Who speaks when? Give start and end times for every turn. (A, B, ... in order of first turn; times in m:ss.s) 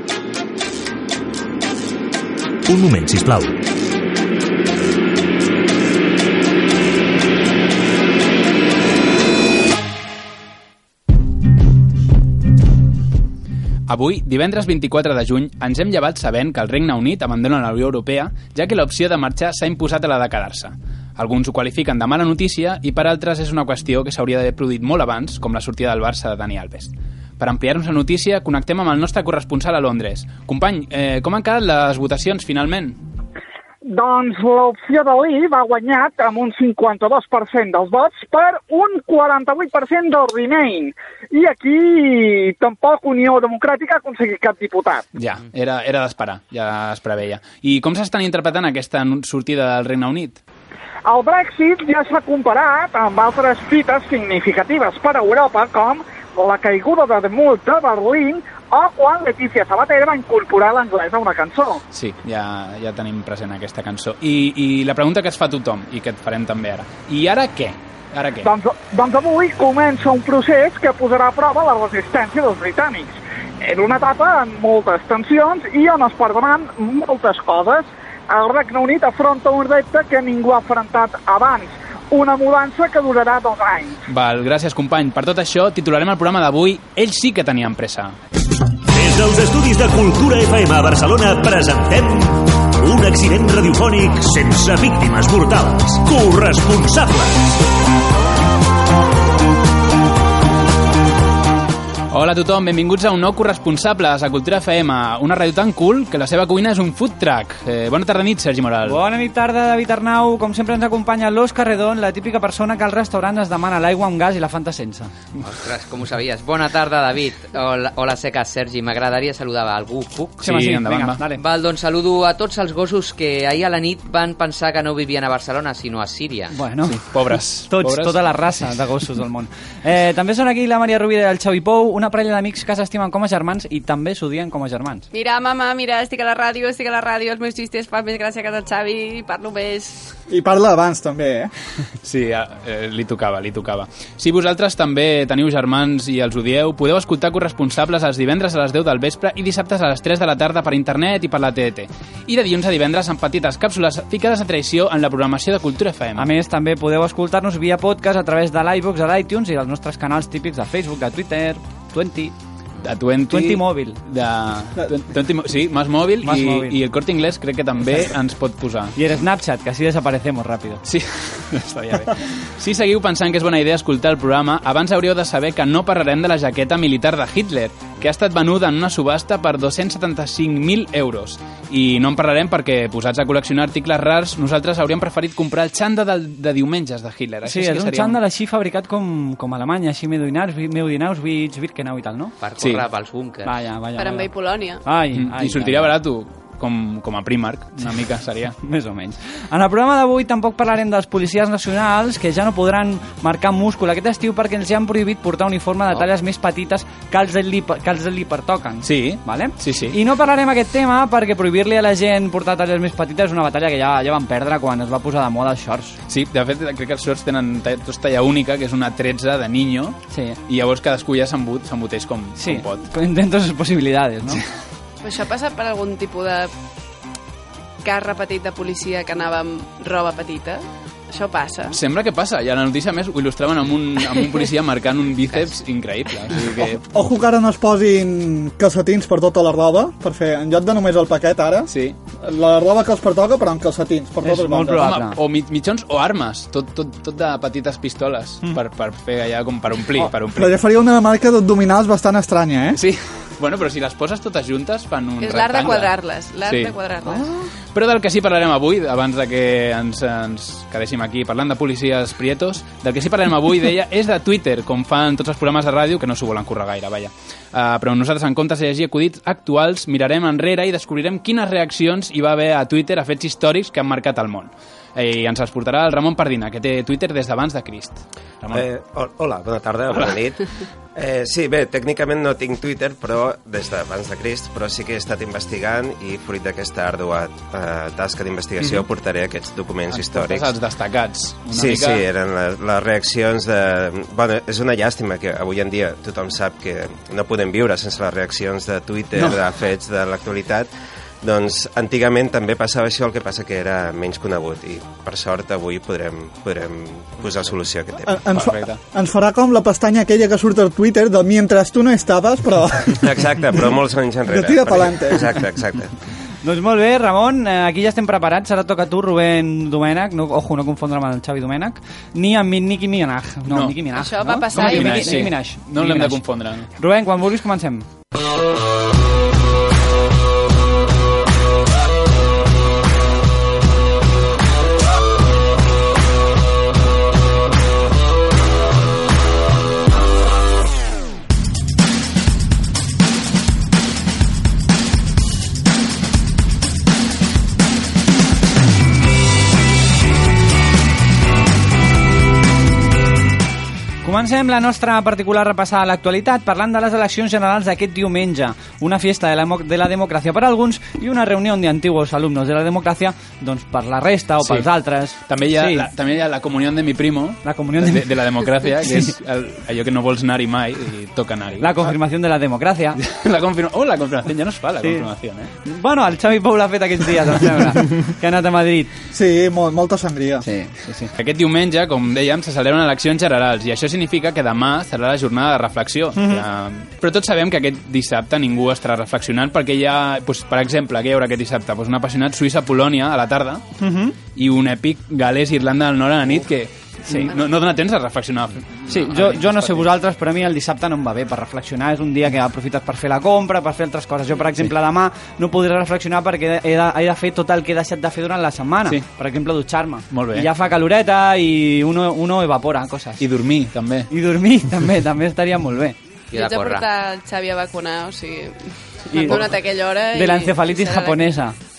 0:02.7-0:03.6 A
0:13.9-0:33.0 B
0:33.8-0:45.0 C
0:45.1-0:50.4 B
0:51.0-1:01.8 C
1:01.9-1:08.5 B
1:08.4-1:24.0 C
1:24.1-1:28.1 B
1:28.9-1:37.6 A
1:42.1-1:49.0 B
1:48.8-1:55.1 D
1:55.4-2:00.4 E
2:00.4-2:01.2 B
2:00.4-2:01.4 D
2:01.4-2:06.6 E
2:06.5-2:07.2 D
2:06.9-2:08.2 B
2:07.7-2:15.0 D
2:15.1-2:20.1 F
2:20.3-2:21.5 G
2:22.0-2:36.3 B
2:36.2-2:42.3 D
2:42.8-2:48.9 B
2:43.3-2:44.0 D
2:46.2-2:46.8 D
2:47.8-2:48.1 D
2:48.9-2:50.8 D
2:50.8-3:08.2 B
3:07.5-3:12.3 D
3:12.4-3:13.5 E
3:12.6-3:12.8 B
3:13.4-3:14.3 D
3:14.0-3:14.8 F
3:14.8-3:15.9 D
3:15.1-3:18.6 B
3:18.6-3:36.0 D
3:28.8-3:30.0 B
3:36.1-3:42.8 B
3:40.1-3:40.4 D
3:42.4-3:44.4 D
3:45.0-3:46.5 F
3:47.8-3:51.8 F
3:51.7-3:56.8 B
3:56.9-4:04.9 G
4:01.7-4:02.0 B
4:04.2-4:05.2 D
4:04.8-4:10.5 B
4:10.3-4:12.8 G
4:12.7-4:15.9 B
4:15.2-4:17.2 F
4:16.4-4:16.7 B
4:17.7-4:38.6 B
4:38.5-4:50.5 H
4:48.6-4:48.8 B
4:49.9-4:52.0 B
4:51.5-5:00.7 H
4:59.2-4:59.4 B
5:01.2-5:08.2 H
5:08.0-5:13.2 G
5:08.3-5:08.8 B
5:13.0-5:15.9 H
5:14.3-5:15.3 G
5:16.4-5:27.8 D
5:23.5-5:23.8 B
5:23.9-5:25.3 F
5:24.5-5:26.7 B
5:54.0-6:05.9 D
6:04.4-6:04.7 B
6:05.3-6:11.8 B
6:07.4-6:09.1 D
6:11.6-6:13.0 D
6:13.0-6:15.5 B
6:14.8-6:15.1 D
6:15.6-6:18.9 D
6:19.1-6:20.4 G
6:20.4-6:21.1 D
6:21.2-6:33.6 B
6:26.1-6:26.4 D
6:33.8-6:34.2 D
6:34.3-6:39.9 B
6:38.9-6:53.2 D
6:50.1-6:50.5 B
6:53.2-6:54.1 B
6:54.1-6:56.0 D
6:56.3-6:56.8 E
6:56.3-7:01.3 F
6:59.1-6:59.4 D
7:00.1-7:01.6 D